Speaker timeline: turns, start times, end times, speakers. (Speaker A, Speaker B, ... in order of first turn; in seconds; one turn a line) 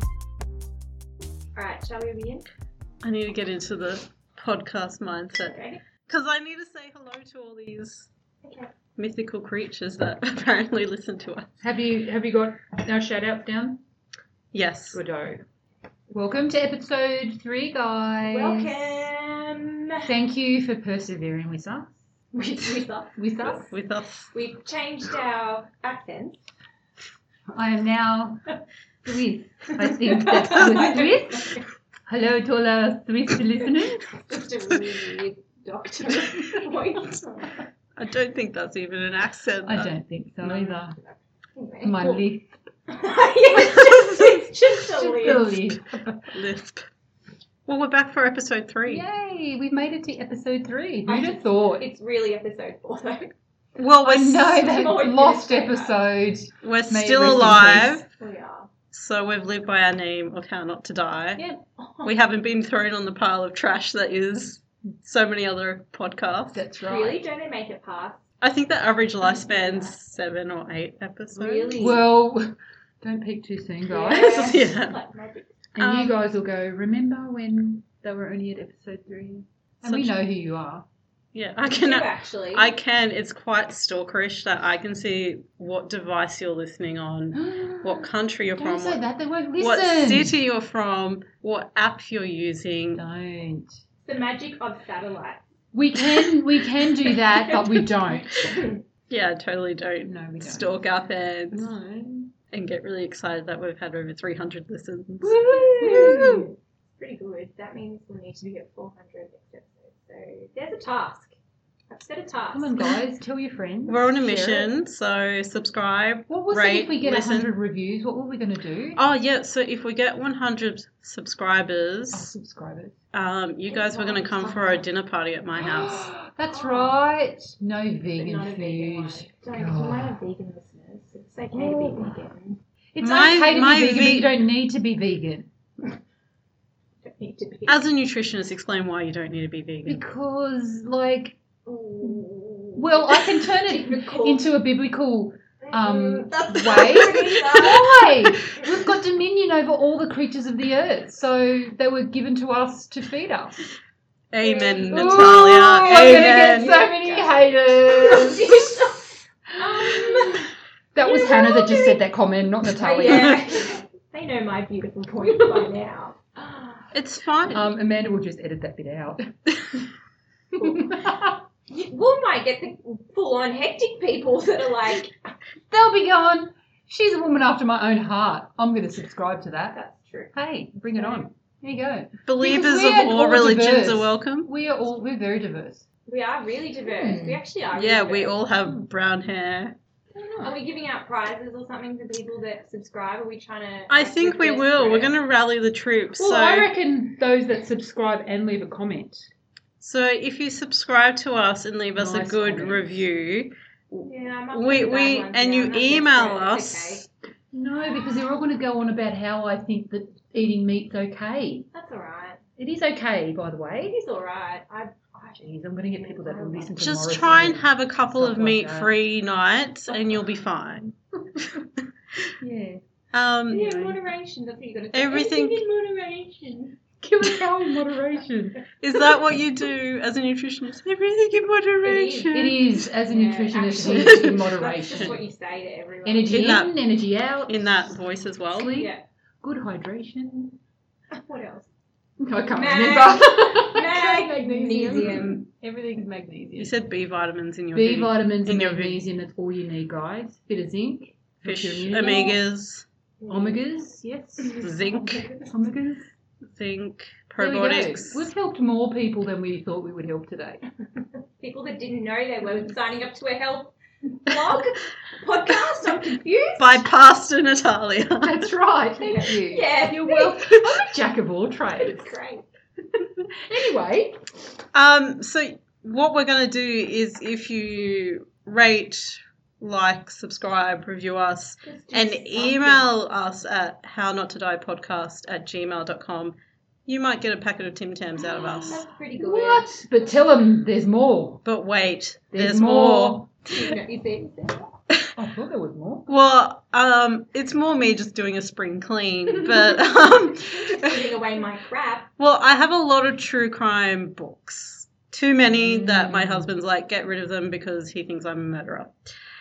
Speaker A: 1.6-2.4
Speaker B: 3.0-8.1
Speaker A: 5.4-5.8
Speaker A: 8.4-8.7
Speaker B: 9.0-11.5
Speaker C: 11.6-13.8
Speaker B: 14.5-15.0
Speaker C: 14.9-15.4
Speaker C: 16.1-19.1
Speaker A: 18.2-20.1
Speaker C: 20.1-21.9
Speaker A: 22.3-23.7
Speaker C: 23.2-23.7
Speaker B: 23.7-24.3
Speaker A: 24.3-26.4
Speaker C: 27.5-28.5
Speaker C: 29.1-34.1
Speaker A: 29.9-31.6
Speaker A: 33.9-37.5
Speaker B: 38.0-40.0
Speaker C: 39.6-41.0
Speaker A: 41.6-42.3
Speaker C: 41.8-42.5
Speaker A: 42.9-45.5
Speaker B: 43.5-45.7
Speaker C: 45.0-46.4
Speaker B: 46.3-46.9
Speaker B: 47.7-49.0
Speaker C: 48.9-51.8
Speaker A: 51.1-53.3
Speaker B: 53.8-54.6
Speaker C: 54.0-58.1
Speaker A: 54.6-56.0
Speaker B: 56.6-58.0
Speaker A: 58.2-58.7
Speaker B: 58.9-61.4
Speaker A: 61.4-62.2
Speaker B: 62.0-66.6
Speaker C: 66.5-67.2
Speaker A: 66.8-68.2
Speaker B: 68.4-72.0
Speaker A: 69.2-70.0
Speaker A: 71.3-72.0
Speaker C: 71.8-74.7
Speaker A: 73.9-75.5
Speaker B: 74.1-75.0
Speaker C: 75.8-80.8
Speaker B: 75.8-76.2
Speaker B: 79.8-80.1
Speaker B: 81.3-89.0
Speaker A: 81.7-82.7
Speaker C: 87.3-90.4
Speaker B: 89.6-93.0
Speaker C: 93.0-93.8
Speaker A: 94.0-95.4
Speaker C: 95.7-98.3
Speaker A: 97.2-98.8
Speaker B: 99.1-101.7
Speaker C: 100.0-100.8
Speaker C: 101.5-102.3
Speaker B: 102.5-106.5
Speaker C: 105.2-106.5
Speaker A: 105.5-111.3
Speaker A: 111.9-112.8
Speaker C: 112.5-114.7
Speaker B: 113.9-117.5
Speaker C: 116.3-119.0
Speaker B: 119.0-122.3
Speaker C: 122.1-123.0
Speaker B: 123.1-126.1
Speaker A: 123.7-124.9
Speaker C: 125.6-130.2
Speaker A: 126.5-127.0
Speaker A: 128.2-132.6
Speaker C: 131.5-132.2
Speaker C: 132.9-135.5
Speaker B: 133.0-134.3
Speaker A: 137.0-137.8
Speaker B: 137.7-140.0
Speaker C: 139.9-141.4
Speaker A: 141.7-144.5
Speaker C: 142.8-153.7
Speaker A: 145.6-148.7
Speaker B: 146.8-147.1
Speaker B: 147.6-147.9
Speaker B: 154.3-156.9
Speaker A: 154.4-160.5
Speaker C: 154.9-158.8
Speaker C: 159.6-163.4
Speaker A: 161.0-162.0
Speaker A: 162.7-166.9
Speaker B: 163.1-163.5
Speaker B: 166.9-167.7
Speaker C: 167.5-169.8
Speaker A: 170.5-171.1
Speaker C: 170.6-171.4
Speaker A: 171.7-175.3
Speaker C: 175.7-179.8
Speaker A: 179.7-180.3
Speaker C: 180.3-185.8
Speaker A: 180.9-181.3
Speaker B: 182.3-184.5
Speaker A: 186.1-188.3
Speaker C: 186.9-187.4
Speaker B: 187.7-189.8
Speaker C: 190.2-190.6
Speaker A: 190.4-195.2
Speaker B: 193.9-196.7
Speaker C: 196.2-199.3
Speaker B: 199.8-207.1
Speaker C: 202.0-202.9
Speaker A: 204.0-207.1
Speaker C: 207.5-211.7
Speaker A: 211.7-212.4
Speaker C: 212.6-214.0
Speaker A: 213.8-216.7
Speaker C: 215.4-218.9
Speaker B: 216.8-220.9
Speaker C: 222.4-222.8
Speaker B: 223.1-223.9
Speaker A: 223.5-226.8
Speaker B: 224.9-225.6
Speaker C: 227.0-228.6
Speaker B: 228.8-232.9
Speaker A: 231.8-232.4
Speaker C: 232.3-235.2
Speaker A: 233.1-236.6
Speaker B: 233.9-235.2
Speaker C: 236.1-238.0
Speaker B: 236.3-236.8
Speaker B: 237.5-238.7
Speaker C: 238.5-240.6
Speaker A: 238.8-239.0
Speaker A: 241.1-241.7
Speaker C: 242.2-246.7
Speaker A: 242.5-245.4
Speaker B: 244.9-245.4
Speaker B: 246.6-249.0
Speaker C: 247.7-252.4
Speaker B: 251.4-252.9
Speaker A: 253.2-253.6
Speaker C: 253.3-254.7
Speaker A: 254.4-255.5
Speaker B: 254.6-255.3
Speaker C: 255.4-256.1
Speaker B: 256.5-258.3
Speaker C: 257.4-260.6
Speaker A: 261.4-266.8
Speaker B: 266.6-268.5
Speaker C: 268.2-272.2
Speaker A: 269.0-270.4
Speaker A: 271.8-272.4
Speaker C: 272.9-274.2
Speaker B: 274.7-288.8
Speaker A: 281.6-282.9
Speaker A: 288.2-289.7
Speaker C: 289.2-291.4
Speaker B: 291.4-293.2
Speaker C: 292.3-293.3
Speaker A: 293.5-294.7
Speaker C: 295.2-296.1
Speaker B: 296.1-301.1
Speaker A: 299.9-302.1
Speaker B: 302.2-308.9
Speaker C: 305.5-306.5